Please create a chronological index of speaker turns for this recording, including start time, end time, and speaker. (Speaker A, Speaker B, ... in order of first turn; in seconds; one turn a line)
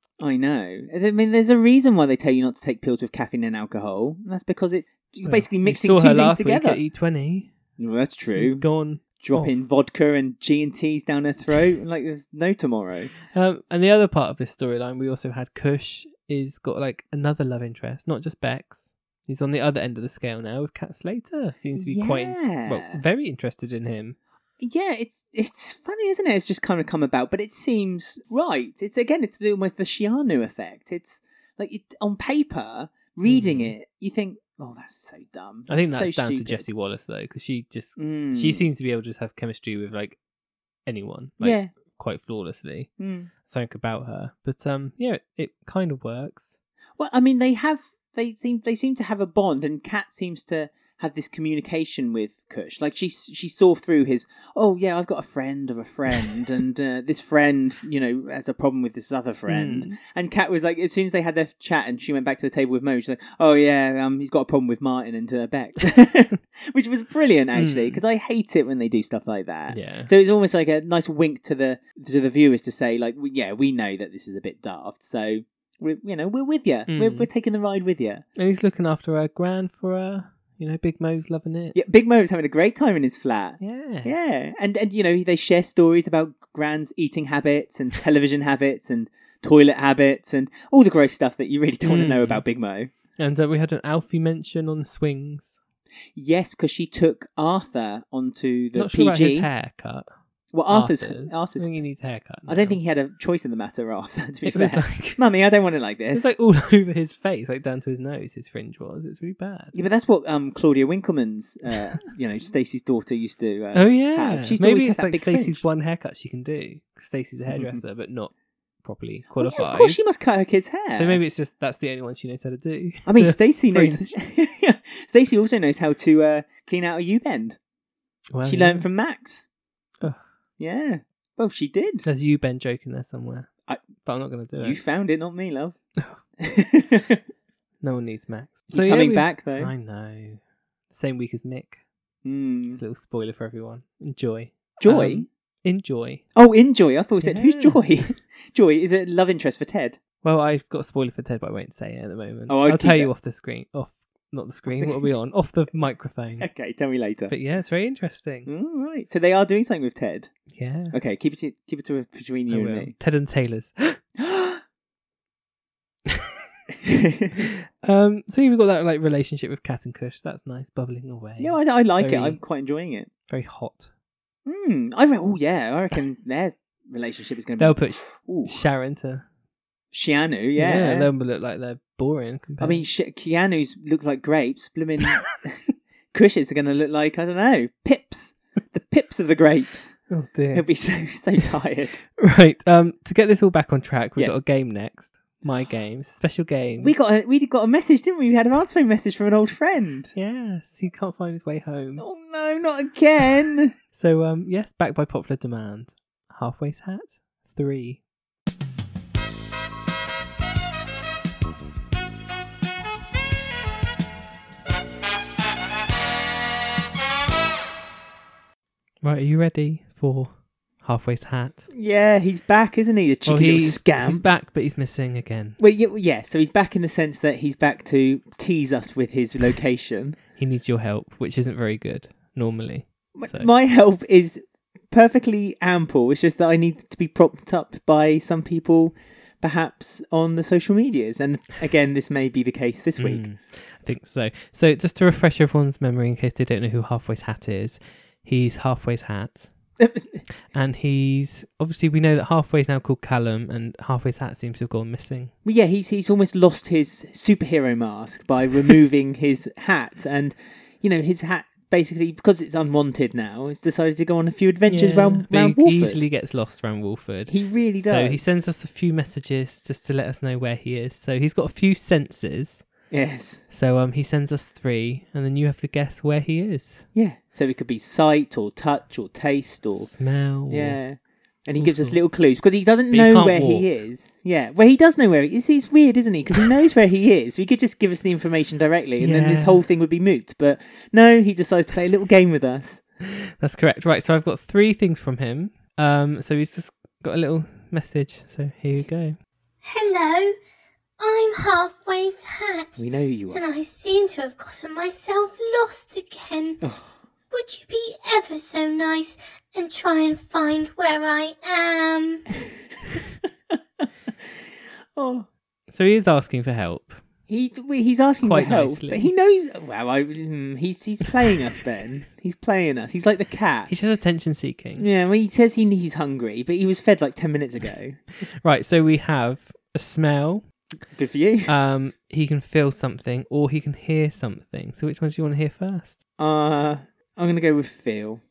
Speaker A: 0.2-6.8
Speaker B: 5.3-7.5
Speaker A: 7.8-8.7
Speaker B: 8.3-9.5
Speaker A: 9.2-13.1
Speaker B: 13.3-24.2
Speaker A: 21.8-23.0
Speaker A: 24.6-36.7
Speaker B: 33.2-33.7
Speaker B: 35.7-40.2
Speaker A: 38.0-38.7
Speaker B: 40.9-42.9
Speaker A: 41.4-41.7
Speaker A: 43.0-43.3
Speaker B: 43.4-46.5
Speaker A: 47.0-78.2
Speaker B: 59.5-60.0
Speaker B: 67.5-68.0
Speaker B: 69.7-70.1
Speaker B: 76.9-77.3
Speaker B: 78.4-81.8
Speaker A: 81.8-92.9
Speaker B: 83.6-84.1
Speaker B: 91.8-92.4
Speaker B: 93.2-95.6
Speaker A: 96.2-99.5
Speaker B: 98.8-100.1
Speaker A: 100.5-101.7
Speaker B: 100.7-102.8
Speaker A: 102.5-106.3
Speaker B: 104.5-105.2
Speaker B: 106.1-109.8
Speaker A: 109.7-115.6
Speaker B: 113.7-118.3
Speaker A: 117.5-117.8
Speaker B: 118.8-120.0
Speaker A: 119.4-121.2
Speaker B: 120.9-124.1
Speaker A: 123.1-127.6
Speaker B: 128.3-128.8
Speaker A: 128.4-129.4
Speaker A: 130.6-132.1
Speaker B: 132.1-134.8
Speaker A: 134.6-135.8
Speaker A: 136.4-137.2
Speaker B: 137.8-140.4
Speaker A: 138.7-139.7
Speaker B: 140.9-141.8
Speaker A: 142.2-142.8
Speaker B: 142.8-146.2
Speaker A: 144.8-145.3
Speaker A: 146.3-150.0
Speaker B: 147.2-147.8
Speaker B: 150.2-156.5
Speaker A: 152.5-153.1
Speaker A: 154.7-155.1
Speaker A: 156.4-157.3
Speaker B: 157.3-158.5
Speaker A: 158.5-160.3
Speaker B: 160.5-160.9
Speaker A: 160.9-162.9
Speaker B: 162.5-164.0
Speaker A: 164.2-164.6
Speaker A: 166.8-167.4
Speaker B: 167.4-172.4
Speaker A: 171.4-173.1
Speaker B: 173.3-173.9
Speaker A: 174.5-178.6
Speaker B: 177.6-179.3
Speaker A: 179.9-181.1
Speaker B: 180.6-182.8
Speaker A: 182.6-185.6
Speaker A: 186.1-190.0
Speaker B: 190.1-190.7
Speaker A: 190.5-192.0
Speaker B: 192.2-196.9
Speaker A: 196.8-200.1
Speaker B: 200.2-202.1
Speaker A: 202.0-203.8
Speaker B: 203.9-208.0
Speaker B: 219.0-221.7
Speaker A: 221.7-224.3
Speaker B: 223.3-225.6
Speaker A: 225.6-230.2
Speaker B: 230.4-233.5
Speaker A: 233.2-243.2
Speaker B: 243.0-249.5
Speaker A: 249.8-250.2
Speaker B: 250.5-255.3
Speaker A: 255.4-266.0
Speaker B: 264.7-272.7
Speaker A: 267.3-268.3
Speaker A: 272.9-273.4
Speaker B: 273.5-276.9
Speaker A: 276.9-279.9
Speaker B: 279.8-280.8
Speaker A: 280.5-292.8
Speaker B: 281.6-282.1
Speaker B: 282.9-283.7
Speaker B: 289.0-289.6
Speaker B: 293.1-299.2
Speaker C: 299.6-300.3
Speaker C: 301.0-302.8
Speaker A: 302.8-303.4
Speaker C: 303.3-306.6
Speaker A: 306.6-306.9
Speaker C: 307.3-312.3
Speaker A: 315.0-315.3
Speaker B: 315.7-317.0
Speaker A: 317.3-323.7
Speaker B: 318.2-319.1
Speaker B: 323.7-324.9
Speaker A: 324.8-328.0
Speaker B: 328.4-330.5
Speaker A: 330.9-331.5
Speaker B: 331.5-336.0
Speaker A: 336.2-338.2